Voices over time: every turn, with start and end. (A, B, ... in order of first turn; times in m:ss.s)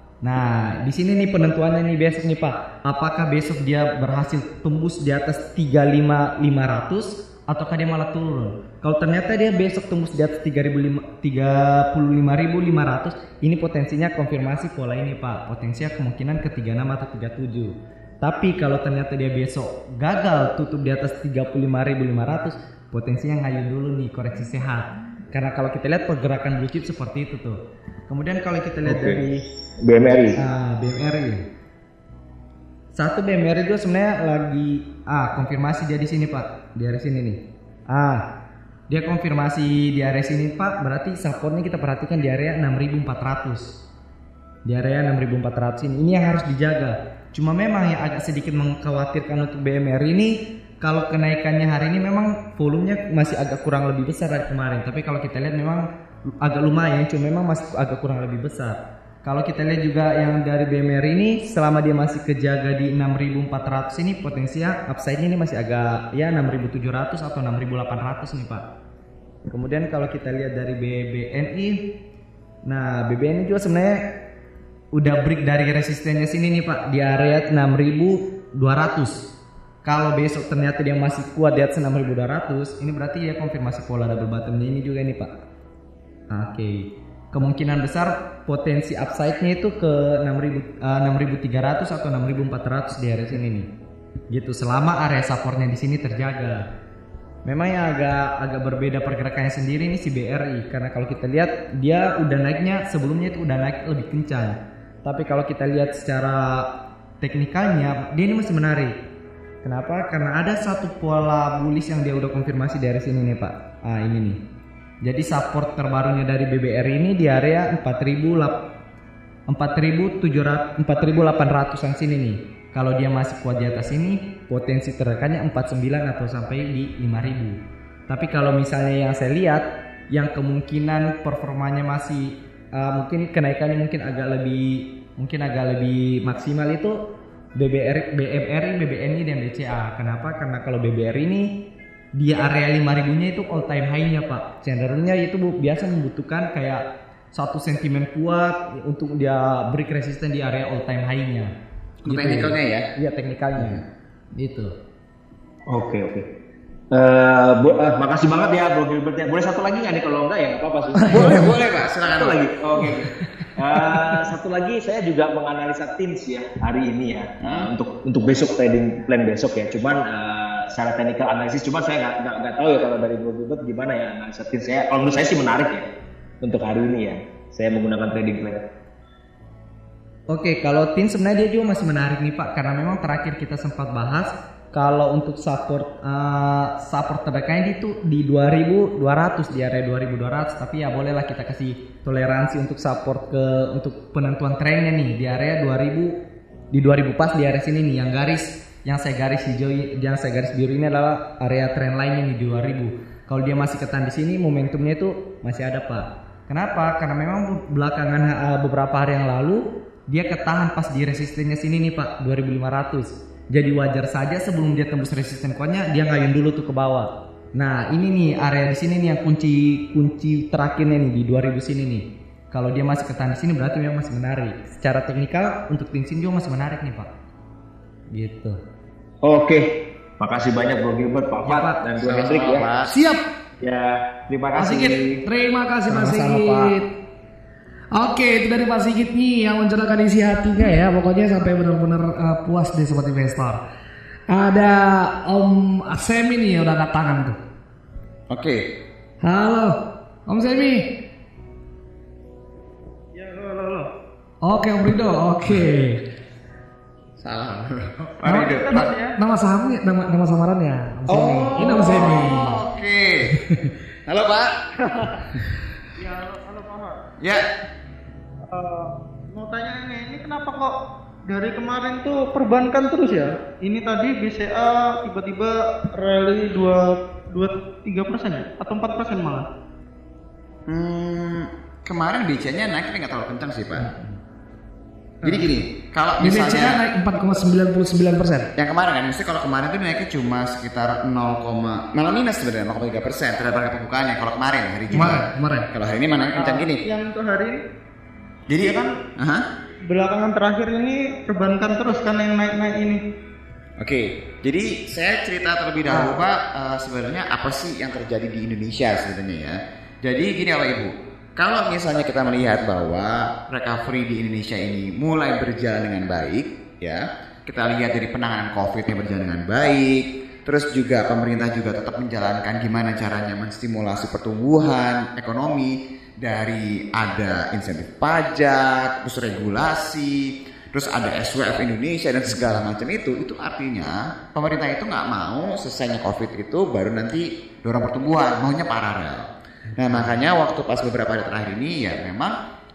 0:00.2-0:29.4 A
0:28.8-0:29.2 B
0:29.8-0:30.4 B
0:30.4-0:31.4 A
0:32.9-0:38.2 A
0:38.9-0:43.8 A
0:44.6-0:55.8 A
0:56.4-1:08.6 A
1:09.5-1:11.8 A
1:12.6-1:14.0 A
1:14.9-1:19.3 A
1:19.8-1:25.3 A
1:26.3-1:33.7 A
1:34.3-1:36.6 A
1:37.4-1:46.7 A
1:47.2-1:48.9 A
1:49.6-1:54.4 A
1:55.0-1:58.6 A
1:59.5-2:17.0 A
2:17.6-2:21.5 A
2:22.1-2:31.5 A
2:32.0-2:32.9 C
2:32.1-2:33.8 A
2:33.6-2:33.8 C
2:34.4-2:34.7 A
2:35.7-2:36.2 B
2:36.9-2:55.9 B
2:41.1-2:42.4 C
2:41.2-2:41.5 D
2:47.4-2:47.7 C
2:56.4-2:58.6 B
3:00.3-3:16.2 A
3:16.7-3:47.1 A
3:48.1-3:48.6 A
3:49.2-3:49.7 B
3:50.2-3:52.6 B
3:51.4-3:51.8 A
3:52.0-3:52.9 C
3:52.9-3:53.2 D
3:53.6-3:55.2 B
3:54.6-3:56.9 D
3:55.9-3:56.7 A
3:57.9-4:03.6 D
4:04.3-4:07.4 D
4:08.3-4:08.6 C
4:09.2-4:09.8 D
4:10.3-4:10.8 D
4:13.1-4:13.9 E
4:14.4-4:16.0 D
4:17.2-4:18.9 C
4:18.2-4:22.6 D
4:18.2-4:19.2 E
4:21.1-4:23.3 C
4:24.1-4:24.5 C
4:24.9-4:25.2 E
4:26.0-4:26.9 E
4:28.4-4:30.7 E
4:31.3-4:39.4 E
4:40.7-4:43.9 C
4:45.2-4:46.8 C
4:46.2-4:48.5 D
4:48.6-4:56.8 C
4:54.9-4:55.7 D
4:56.3-4:57.6 E
4:58.5-4:59.4 C
4:59.9-5:03.0 E
5:03.8-5:42.3 C
5:39.7-5:40.1 A